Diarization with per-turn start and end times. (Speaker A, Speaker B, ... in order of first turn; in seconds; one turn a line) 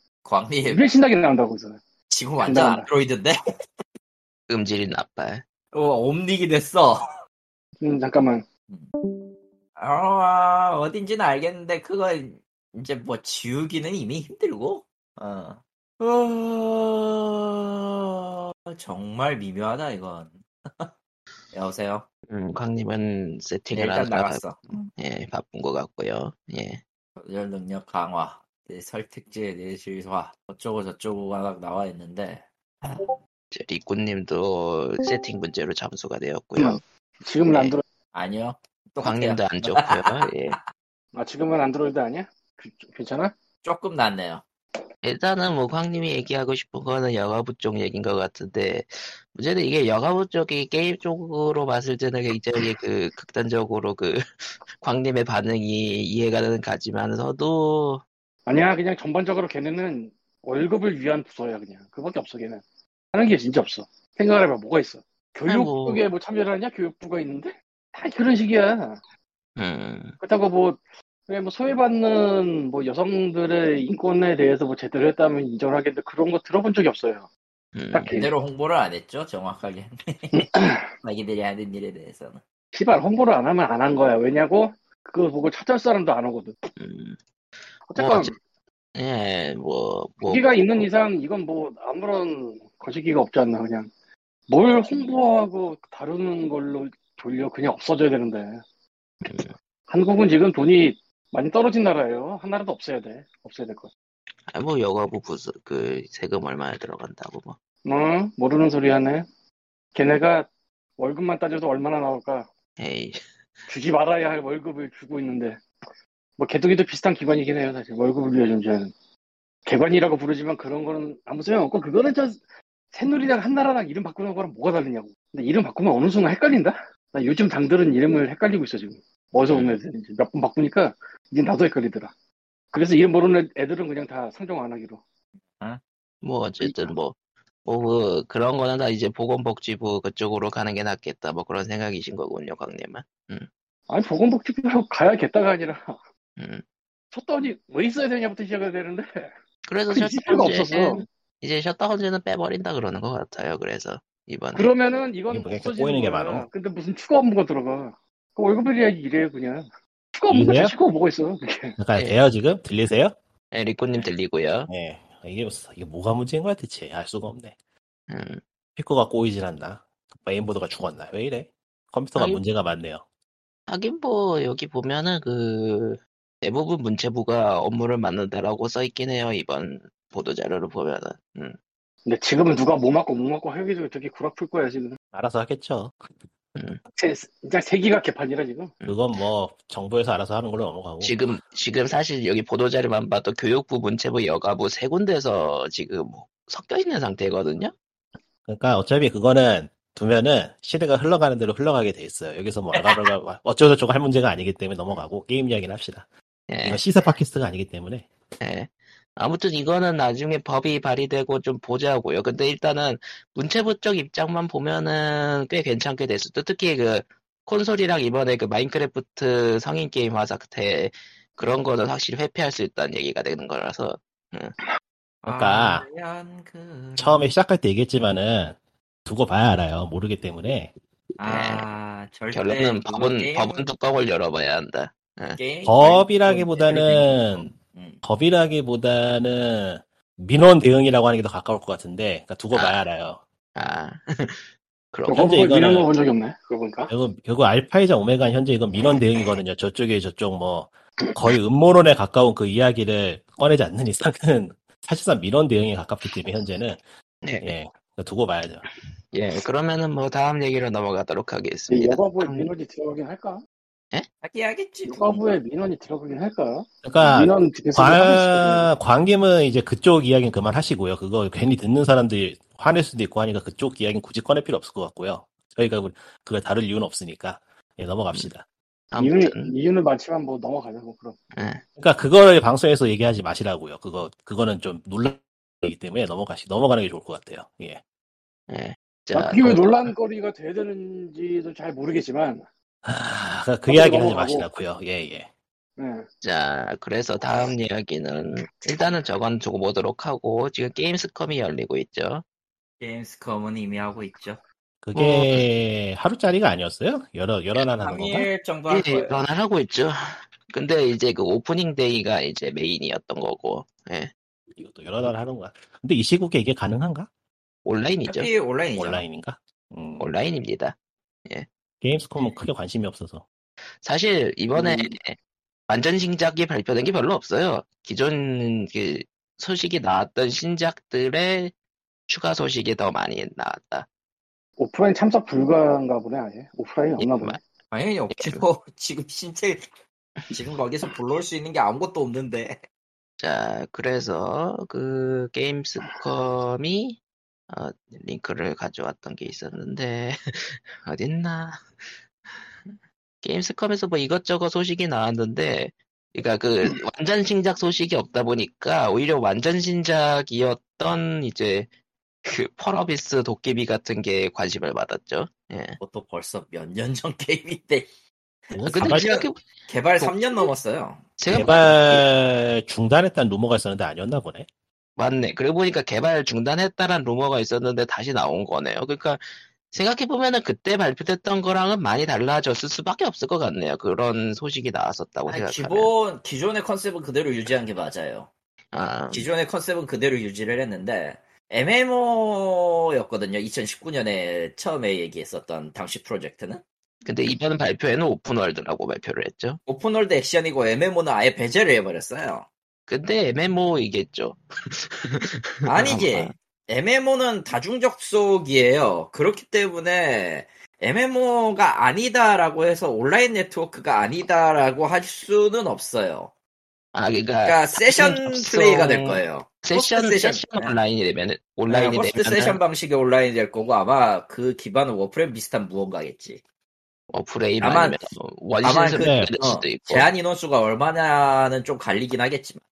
Speaker A: 0.2-0.9
Speaker B: 0.7-1.8
Speaker A: 2.1-3.4
Speaker B: 2.4-2.9
Speaker C: 4.5-5.4
Speaker A: 5.7-7.1
Speaker B: 7.8-8.4
Speaker A: 9.8-20.9
Speaker A: 21.5-22.1
Speaker C: 22.3-24.4
Speaker A: 23.7-24.9
Speaker C: 25.0-26.8
Speaker A: 27.2-33.1
Speaker C: 33.5-36.8
Speaker B: 36.6-37.8
Speaker A: 38.1-40.6
Speaker C: 39.0-40.6
Speaker B: 41.1-43.3
Speaker A: 43.6-44.4
Speaker C: 45.0-58.0
Speaker B: 58.5-62.6
Speaker B: 63.1-69.0
Speaker C: 65.5-66.0
Speaker C: 69.6-70.2
Speaker B: 70.2-77.3
Speaker C: 77.8-78.2
Speaker B: 77.9-78.3
Speaker A: 78.1-82.4
Speaker B: 80.3-80.8
Speaker B: 82.7-86.6
Speaker C: 86.8-87.2
Speaker B: 87.9-88.4
Speaker C: 88.0-88.3
Speaker C: 89.0-90.5
Speaker B: 90.3-93.9
Speaker B: 94.5-98.6
Speaker C: 99.2-99.5
Speaker B: 99.9-103.9
Speaker C: 104.5-107.6
Speaker B: 107.8-109.3
Speaker B: 110.0-112.5
Speaker C: 112.8-113.2
Speaker B: 113.7-115.6
Speaker B: 116.4-118.9
Speaker B: 119.7-132.1
Speaker B: 132.7-135.0
Speaker C: 136.2-143.5
Speaker B: 143.9-146.0
Speaker C: 146.4-146.6
Speaker B: 147.1-149.3
Speaker C: 149.7-154.7
Speaker B: 149.9-151.1
Speaker B: 154.5-161.8
Speaker D: 155.3-156.5
Speaker D: 160.3-160.7
Speaker D: 161.8-163.2
Speaker C: 163.5-164.7
Speaker D: 164.7-167.5
Speaker C: 168.1-168.4
Speaker D: 168.8-173.0
Speaker C: 172.2-172.4
Speaker C: 173.7-181.6
Speaker B: 182.1-185.0
Speaker D: 185.1-186.0
Speaker B: 187.0-188.8
Speaker D: 188.9-191.2
Speaker C: 191.0-197.7
Speaker D: 198.5-206.1
Speaker A: 202.7-203.1
Speaker C: 206.5-206.9
Speaker D: 206.6-208.1
Speaker C: 208.4-224.6
Speaker A: 225.2-227.3
Speaker D: 225.2-225.8
Speaker D: 227.0-230.7
Speaker A: 231.2-233.7
Speaker C: 231.2-231.7
Speaker C: 232.3-235.4
Speaker A: 235.4-238.0
Speaker D: 235.7-237.5
Speaker D: 238.0-243.2
Speaker C: 242.5-242.8
Speaker C: 243.6-245.3
Speaker D: 245.1-245.9
Speaker B: 245.1-246.9
Speaker D: 246.9-256.8
Speaker C: 257.2-257.5
Speaker D: 257.4-258.6
Speaker C: 259.1-262.5
Speaker B: 261.7-263.4
Speaker A: 264.2-265.2
Speaker B: 264.9-268.7
Speaker D: 266.9-278.4
Speaker C: 278.9-279.5
Speaker B: 279.0-281.3
Speaker C: 281.4-281.6
Speaker D: 281.8-287.8
Speaker C: 288.5-289.7
Speaker B: 289.1-292.4
Speaker D: 292.9-295.3
Speaker B: 293.7-294.5
Speaker B: 295.8-296.1
Speaker C: 296.2-302.2
Speaker A: 302.8-304.4
Speaker D: 304.8-308.3
Speaker C: 304.9-305.5
Speaker A: 307.8-309.2
Speaker C: 308.7-314.1
Speaker D: 314.6-317.1
Speaker C: 317.6-318.3
Speaker A: 318.1-319.0
Speaker D: 318.7-320.1
Speaker C: 320.0-320.8
Speaker D: 321.8-323.2
Speaker C: 323.8-325.2
Speaker C: 325.7-331.5
Speaker C: 332.1-333.9
Speaker B: 334.6-337.4
Speaker C: 337.0-337.4
Speaker A: 337.7-339.7
Speaker C: 338.1-338.4
Speaker A: 340.3-342.6
Speaker C: 343.2-347.0
Speaker C: 347.5-351.7
Speaker C: 352.7-361.7
Speaker C: 362.3-365.8
Speaker A: 365.8-367.9
Speaker A: 368.5-371.1
Speaker D: 368.5-369.1
Speaker C: 368.7-369.4
Speaker C: 370.0-370.5
Speaker C: 371.2-372.1
Speaker D: 371.3-374.5
Speaker C: 375.0-385.9
Speaker A: 385.3-388.3
Speaker C: 388.7-389.3
Speaker A: 389.1-396.6
Speaker C: 397.1-399.6
Speaker A: 399.7-402.5
Speaker C: 402.9-406.3
Speaker A: 405.7-416.3
Speaker C: 416.9-422.6
Speaker A: 417.5-420.7
Speaker A: 421.7-426.4
Speaker C: 427.1-430.1
Speaker A: 427.6-428.0
Speaker A: 428.6-432.6
Speaker D: 429.0-429.3